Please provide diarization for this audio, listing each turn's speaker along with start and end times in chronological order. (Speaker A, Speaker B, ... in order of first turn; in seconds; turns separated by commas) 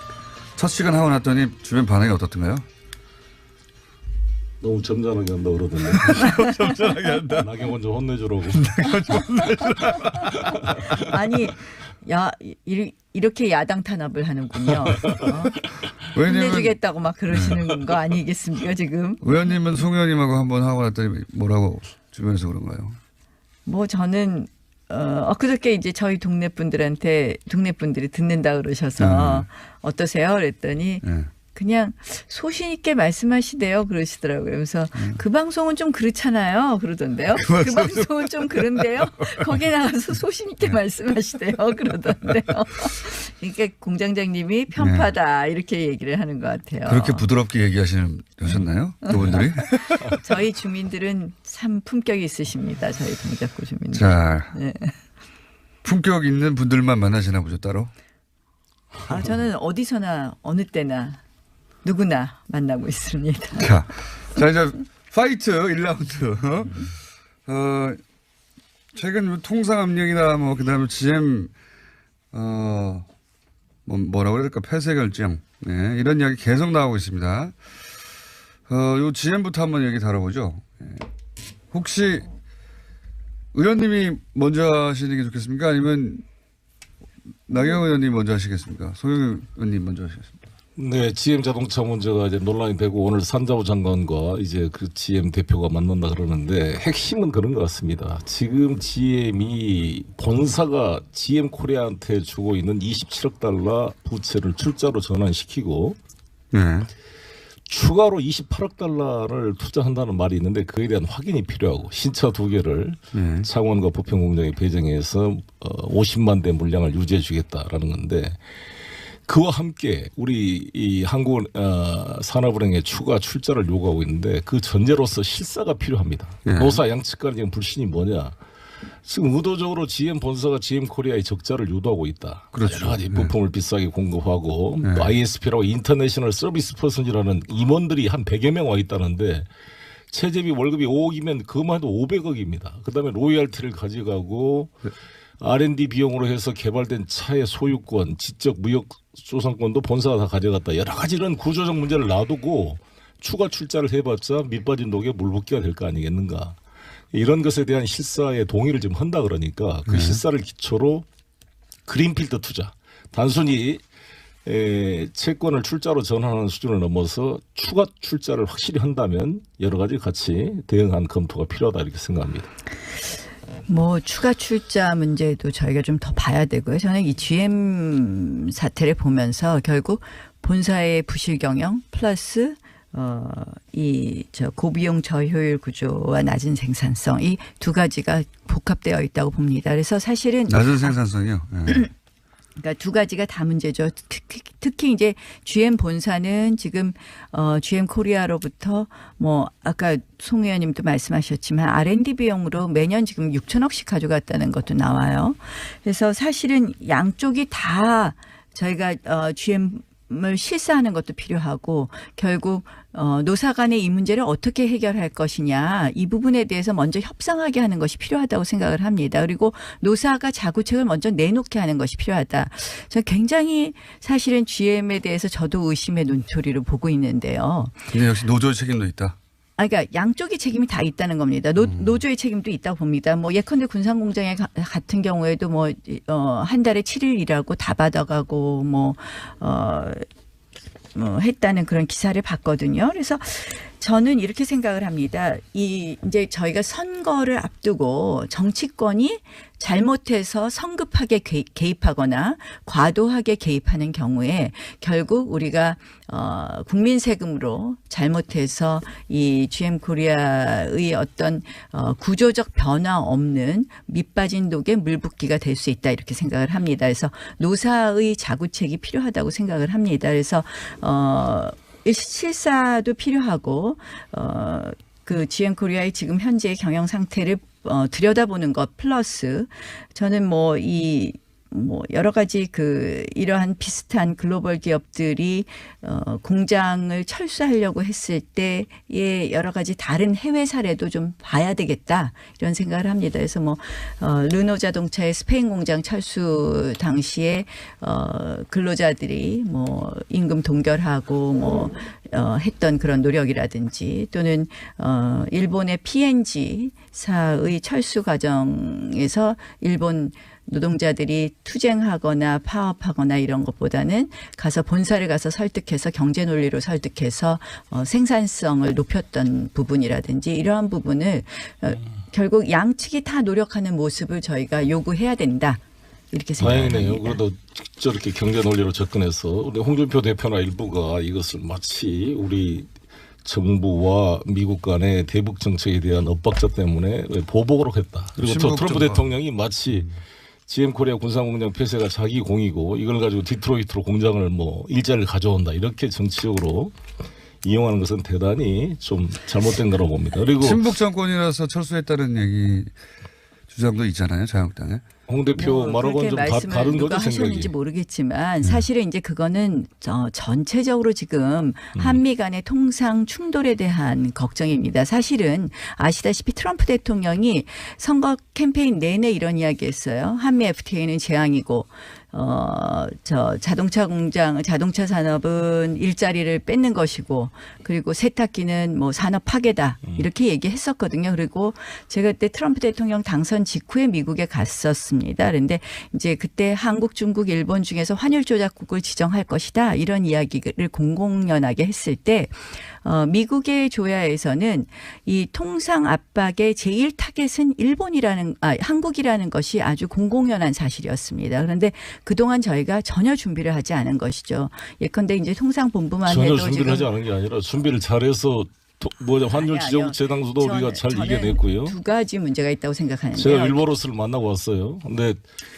Speaker A: 0.6-2.6, Speaker B: 4.6-6.4, Speaker A: 5.9-7.7, Speaker B: 7.4-9.2, Speaker A: 8.5-11.1, Speaker C: 9.2-10.0, Speaker B: 10.3-10.6, Speaker C: 10.8-15.5, Speaker B: 14.9-15.3, Speaker A: 16.1-16.8, Speaker C: 16.2-19.5, Speaker A: 17.3-17.6, Speaker A: 19.2-23.0, Speaker C: 23.6-47.3, Speaker A: 29.0-29.4, Speaker A: 31.0-31.3, Speaker A: 37.4-39.5, Speaker A: 44.8-45.1, Speaker A: 46.9-50.2, Speaker C: 49.0-55.0, Speaker A: 53.9-54.5, Speaker A: 55.8-57.9, Speaker C: 59.0-61.2, Speaker C: 61.8-63.7, Speaker A: 63.6-66.9, Speaker A: 67.5-68.0, Speaker A: 68.9-71.5, Speaker A: 72.3-73.0, Speaker A: 73.8-77.5, Speaker A: 78.7-81.0, Speaker A: 81.7-82.3, Speaker A: 83.5-86.2, Speaker A: 87.5-90.3, Speaker B: 90.8-106.0, Speaker A: 106.5-106.9, Speaker B: 107.7-118.4, Speaker A: 113.1-113.5, Speaker B: 119.3-128.3, Speaker A: 126.5-126.8, Speaker B: 129.0-139.5, Speaker A: 132.5-133.3, Speaker A: 134.8-135.1, Speaker B: 140.1-144.8, Speaker B: 145.4-156.6, Speaker B: 157.1-161.0, Speaker A: 159.8-160.2, Speaker B: 161.9-163.8, Speaker B: 164.4-172.5, Speaker C: 173.7-190.9, Speaker A: 190.5-191.8, Speaker C: 192.6-227.9, Speaker A: 227.9-229.2, Speaker C: 229.6-240.0, Speaker A: 231.6-232.0, Speaker C: 240.9-325.6, Speaker C: 326.1-327.2, Speaker B: 326.4-332.7, Speaker B: 333.2-339.9, Speaker A: 338.2-339.1, Speaker B: 340.5-346.7, Speaker B: 347.4-350.7, Speaker A: 350.4-352.7, Speaker A: 353.5-354.8, Speaker B: 355.1-357.5, Speaker C: 355.3-406.9, Speaker B: 361.7-362.0, Speaker B: 406.1-411.7, Speaker C: 409.3-413.6, Speaker B: 413.1-415.2